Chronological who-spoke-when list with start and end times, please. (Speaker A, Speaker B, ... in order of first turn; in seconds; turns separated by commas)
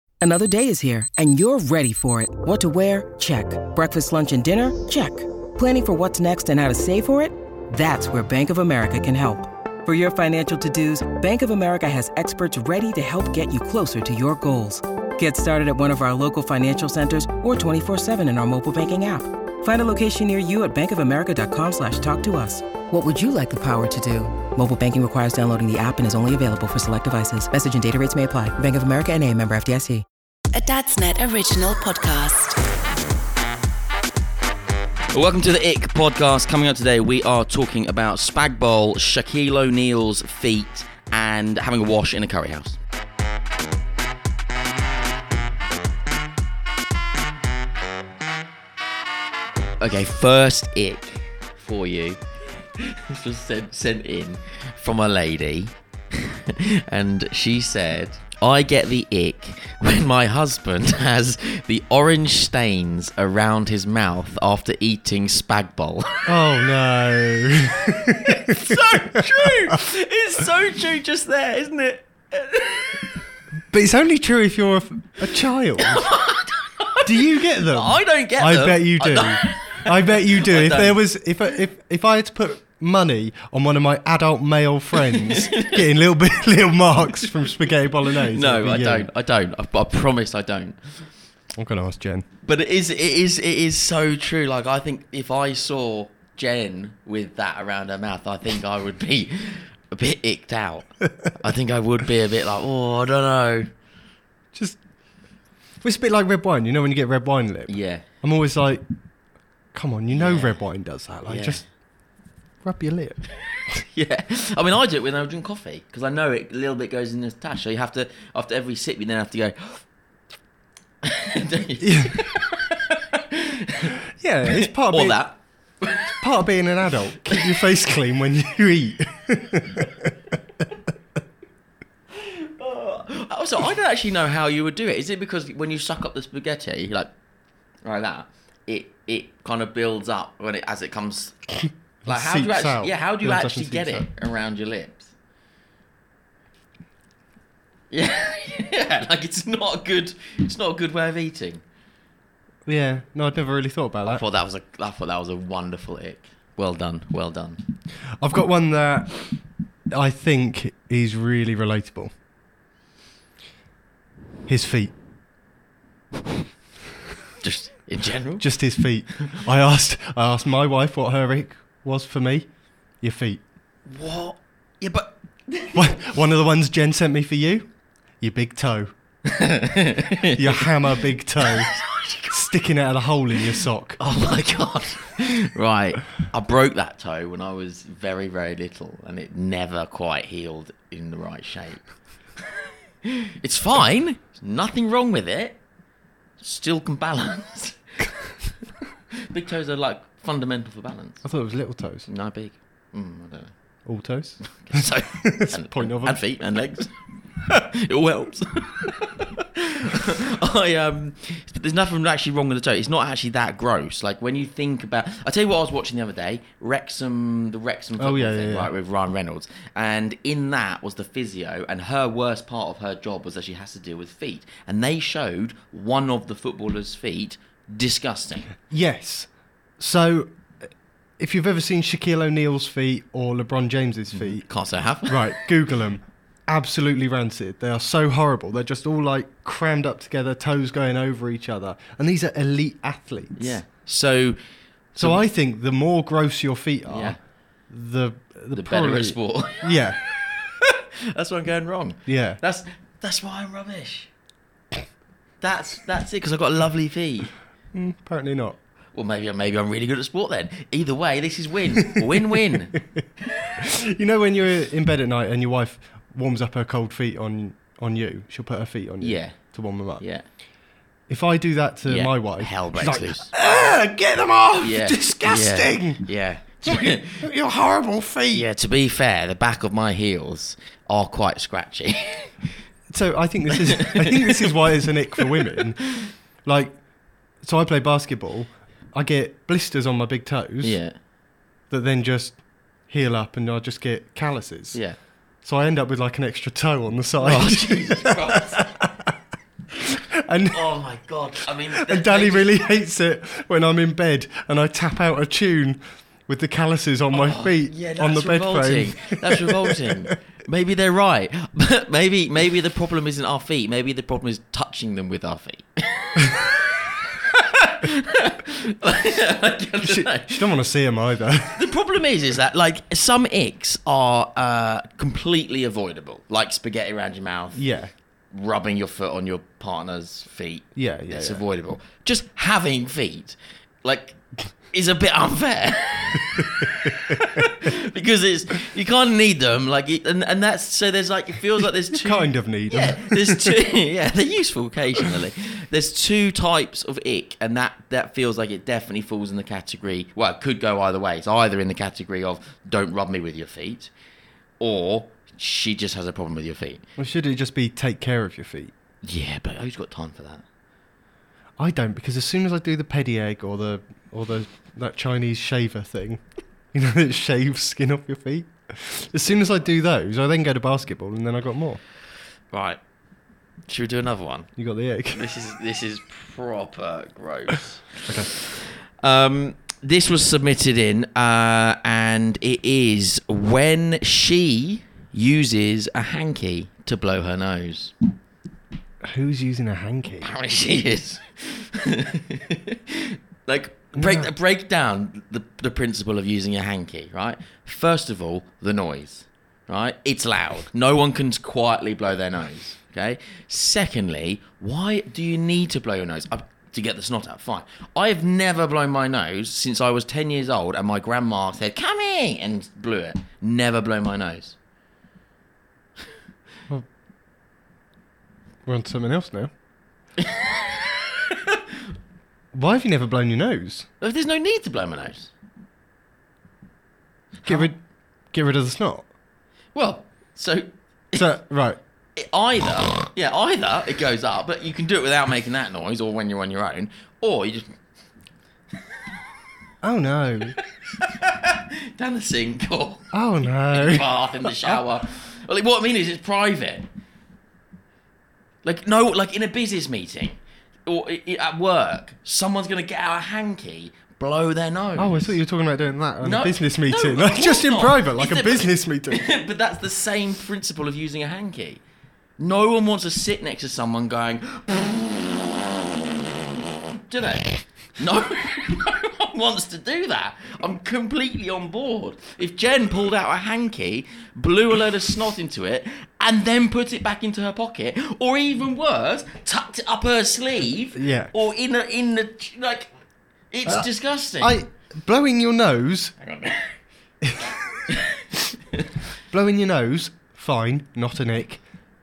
Speaker A: 0.2-30.1, Speaker B: 30.5-32.6, Speaker C: 35.1-42.8, Speaker C: 49.8-52.2, Speaker C: 52.8-66.4, Speaker D: 66.3-69.2, Speaker C: 67.9-73.2, Speaker D: 73.7-76.1, Speaker C: 75.8-81.0, Speaker D: 77.0-89.1, Speaker C: 85.0-85.8, Speaker C: 88.3-90.8, Speaker D: 91.6-92.3, Speaker C: 92.4-103.7, Speaker D: 105.8-108.8, Speaker C: 107.7-108.0, Speaker D: 109.7-111.6, Speaker C: 110.1-110.6, Speaker C: 111.3-111.6, Speaker D: 112.6-113.2, Speaker C: 113.7-119.8, Speaker C: 121.0-124.0, Speaker D: 121.8-122.2, Speaker D: 124.2-125.2, Speaker C: 124.5-126.2, Speaker D: 126.2-130.1, Speaker C: 132.2-137.1, Speaker C: 137.8-145.1, Speaker D: 142.1-144.1, Speaker C: 147.9-151.6, Speaker D: 152.7-154.2, Speaker C: 154.1-157.6, Speaker D: 158.2-159.2, Speaker D: 159.9-162.1, Speaker D: 164.5-164.9, Speaker C: 167.4-168.5, Speaker D: 168.4-172.5, Speaker D: 173.0-173.4, Speaker C: 173.9-175.9, Speaker D: 175.7-177.7, Speaker D: 178.2-178.9, Speaker C: 179.3-182.5, Speaker D: 180.3-181.7, Speaker D: 182.3-184.0, Speaker C: 183.5-191.8, Speaker C: 193.1-195.6, Speaker C: 196.4-197.8, Speaker C: 199.3-201.2, Speaker D: 201.2-202.1, Speaker C: 202.1-203.5, Speaker D: 203.9-206.2, Speaker C: 204.6-228.5, Speaker D: 218.0-218.7, Speaker D: 228.7-230.3, Speaker D: 231.2-234.5, Speaker C: 234.1-235.4, Speaker D: 235.0-243.6, Speaker C: 243.4-244.4, Speaker C: 244.9-245.2, Speaker D: 245.0-247.2, Speaker C: 246.9-247.2, Speaker D: 247.7-250.0, Speaker C: 248.5-254.1, Speaker D: 252.1-252.4, Speaker C: 255.4-257.3, Speaker D: 257.7-258.6, Speaker C: 258.9-262.8, Speaker D: 261.8-262.4, Speaker D: 263.6-270.0, Speaker C: 269.0-269.4, Speaker C: 270.0-270.2, Speaker D: 271.1-276.0, Speaker C: 271.9-273.3, Speaker C: 274.6-277.3, Speaker D: 276.6-278.5, Speaker C: 278.3-282.3, Speaker D: 282.9-285.8, Speaker C: 283.6-284.7, Speaker C: 285.5-285.7, Speaker D: 286.5-286.8, Speaker D: 287.4-290.8, Speaker C: 290.6-291.0, Speaker D: 291.7-294.8, Speaker D: 295.4-299.1, Speaker C: 297.2-298.8, Speaker D: 299.8-300.6, Speaker C: 300.5-302.6, Speaker D: 301.7-310.1, Speaker C: 307.1-320.4, Speaker D: 319.8-321.6, Speaker C: 321.5-327.6, Speaker D: 327.6-327.9, Speaker C: 328.3-334.2, Speaker D: 330.8-331.4, Speaker C: 334.7-353.9, Speaker D: 341.9-343.6, Speaker C: 354.6-356.8, Speaker D: 357.0-358.7, Speaker C: 359.0-360.4, Speaker D: 361.6-366.2, Speaker D: 366.7-371.8, Speaker C: 372.5-372.8, Speaker C: 373.7-374.5, Speaker D: 374.6-375.3, Speaker C: 375.1-387.9, Speaker D: 378.1-378.3, Speaker D: 389.1-390.3, Speaker C: 390.2-414.6, Speaker D: 394.0-394.3, Speaker D: 418.7-419.5, Speaker C: 420.2-420.9, Speaker D: 422.5-423.9, Speaker C: 424.0-425.3, Speaker C: 427.4-427.7, Speaker D: 427.4-427.8, Speaker D: 428.3-429.1, Speaker C: 429.7-431.3, Speaker D: 431.1-431.8, Speaker C: 432.2-437.7, Speaker D: 439.8-440.6, Speaker C: 440.6-443.1, Speaker D: 443.1-444.8, Speaker C: 443.7-446.9, Speaker C: 448.6-455.4, Speaker D: 455.0-459.2, Speaker C: 456.2-461.8, Speaker C: 462.4-466.3, Speaker C: 467.1-482.9, Speaker D: 480.9-481.3, Speaker C: 483.5-484.6, Speaker D: 484.4-486.1, Speaker C: 486.2-486.8, Speaker D: 487.2-487.6, Speaker D: 489.3-491.6